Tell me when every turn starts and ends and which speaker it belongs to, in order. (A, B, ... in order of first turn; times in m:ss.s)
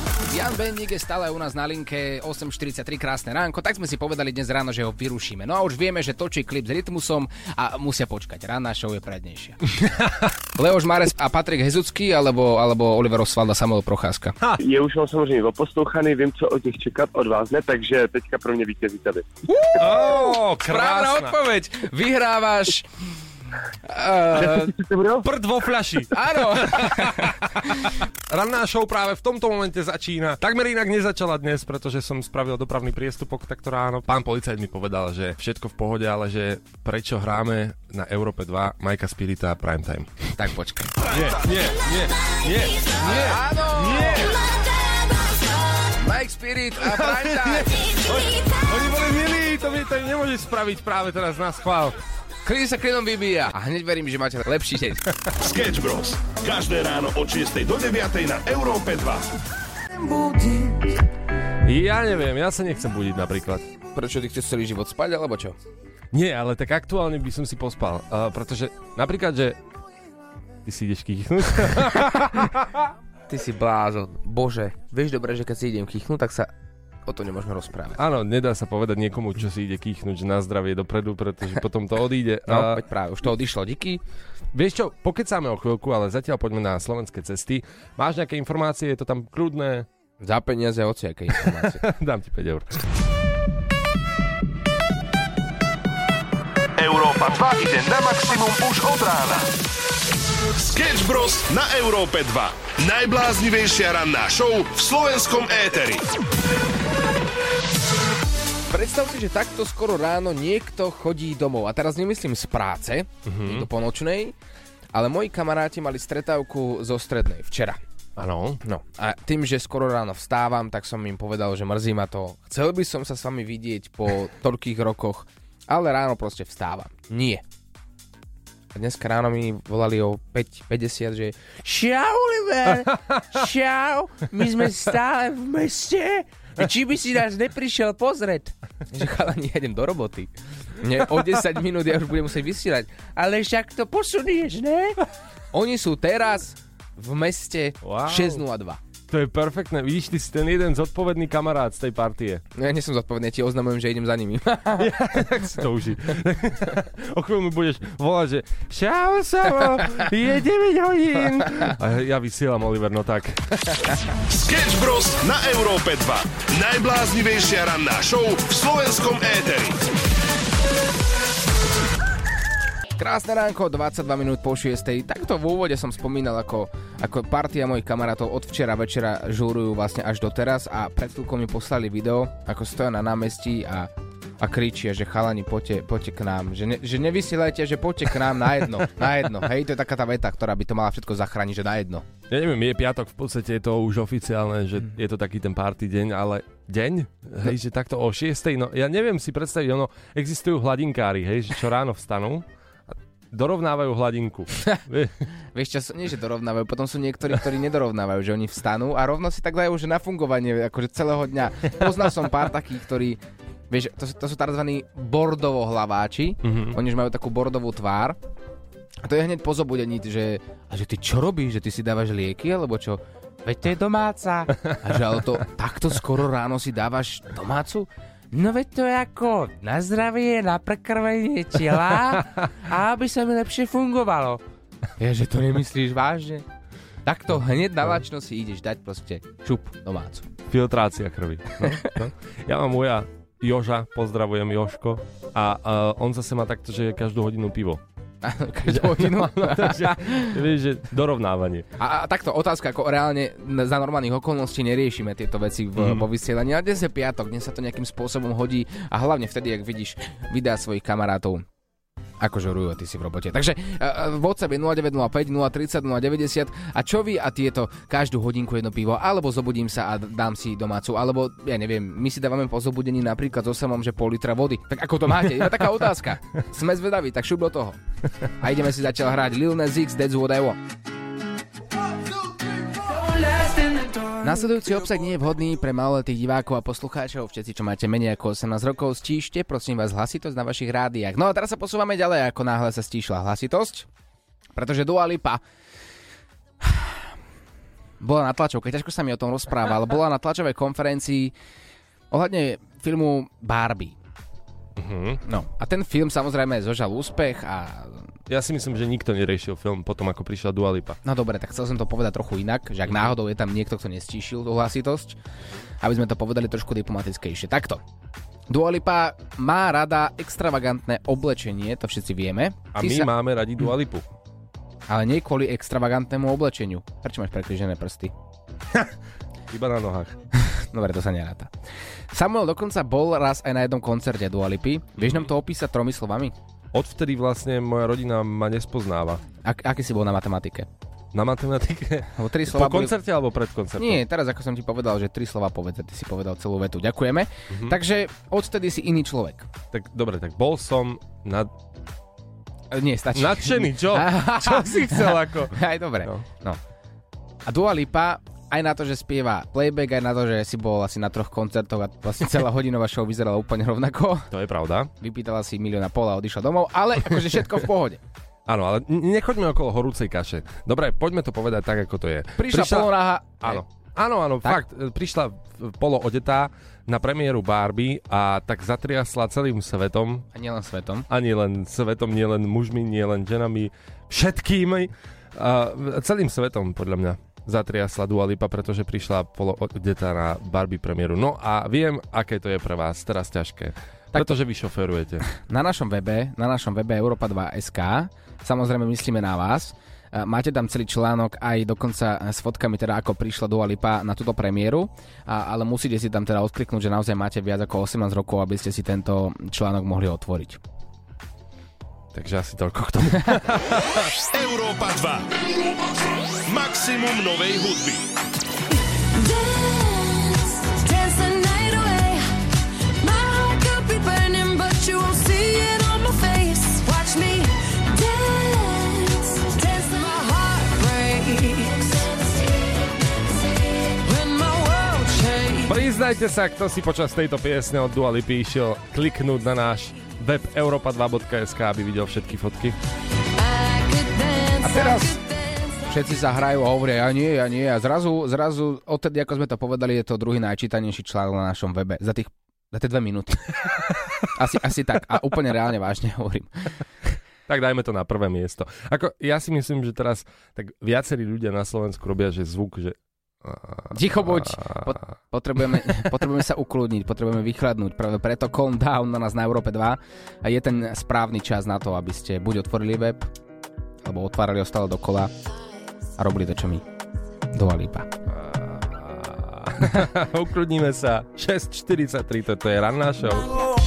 0:00.3-0:09.6 A
0:09.9-0:10.1 B
0:10.6-0:14.4 A
0:14.6-0:19.3 C
0:19.5-0:22.9 A
0:19.8-0:21.4 B
0:23.8-0:24.7 A
0:24.4-0:24.7 B
0:24.5-0:25.6 C
0:25.2-0:40.4 B
0:26.1-0:27.4 A
0:40.4-0:40.9 A
0:41.1-0:44.4 B
0:43.0-0:44.4 A
0:44.5-0:44.9 D
0:46.0-0:47.8 A
0:46.9-0:52.0 B
0:48.1-0:48.6 D
0:52.4-0:55.1 A
0:55.4-0:59.3 E
1:01.6-1:03.7 B
1:03.9-1:05.6 A
1:06.1-1:09.6 B
1:10.6-1:12.9 B
1:13.3-1:16.5 A
1:17.1-1:18.0 A
1:18.0-1:22.8 B
1:22.5-1:24.0 A
1:24.5-1:29.9 B
1:30.2-1:31.8 A
1:31.5-1:32.8 B
1:36.8-1:39.5 E
1:40.6-1:46.1 E
1:48.7-1:54.4 A
1:53.3-1:53.7 B
1:54.9-1:57.8 A
1:58.2-1:58.6 B
1:58.6-2:07.4 A
2:08.7-2:25.0 A
2:25.5-2:28.8 A
2:27.8-2:28.4 B
2:29.1-2:32.4 B
2:32.6-2:34.9 A
2:34.8-2:43.8 B
2:44.3-2:49.9 E
2:53.0-3:12.0 A
3:12.3-3:22.4 B
3:23.3-3:25.2 B
3:25.5-3:38.2 A
3:36.4-3:36.8 B
3:39.0-3:54.4 A
3:55.0-3:56.4 A
3:57.1-4:00.3 A
4:00.5-4:07.8 B
4:01.6-4:01.9 A
4:08.2-4:10.4 A
4:08.7-4:11.7 B
4:11.8-4:21.4 A
4:15.8-4:16.0 B
4:22.2-4:37.8 A
4:38.4-4:40.6 A
4:43.0-4:44.1 D
4:44.2-4:53.9 A
4:54.6-4:55.4 A
4:56.6-4:57.0 A
4:58.0-5:01.3 A
5:02.1-5:04.0 A
5:04.8-5:05.2 B
5:05.3-5:08.1 A
5:08.3-5:11.0 B
5:11.0-5:15.2 A
5:15.8-5:17.8 A
5:18.5-5:23.1 A
5:22.8-5:24.0 B
5:24.9-5:28.1 A
5:29.5-5:30.2 B
5:30.4-5:31.5 A
5:32.1-5:36.3 A
5:35.0-5:35.3 B
5:36.7-5:39.2 B
5:39.4-5:40.7 A
5:41.1-5:44.0 B
5:42.2-5:43.0 A
5:43.8-5:49.5 A
5:49.7-5:51.5 B
5:52.7-5:56.6 A
5:53.2-5:56.2 B
5:57.5-6:04.3 A
6:04.3-6:04.9 B
6:05.0-6:08.0 A
6:08.5-6:20.3 B
6:12.4-6:13.6 A
6:20.3-6:21.1 A
6:21.1-6:35.3 B
6:35.4-6:50.6 A
6:52.1-6:54.1 B
6:54.3-6:55.3 E
6:55.6-6:55.9 D
6:56.5-6:58.1 E
6:59.1-7:02.3 D
7:03.0-7:15.8 D
7:15.7-7:22.8 B
7:23.4-7:25.8 D
7:24.6-7:25.1 A
7:25.9-7:36.8 A
7:37.5-7:44.8 B
7:43.9-7:53.3 A
7:54.0-7:55.3 A
7:56.2-7:56.8 A
7:57.5-7:58.1 A
7:58.3-8:03.6 B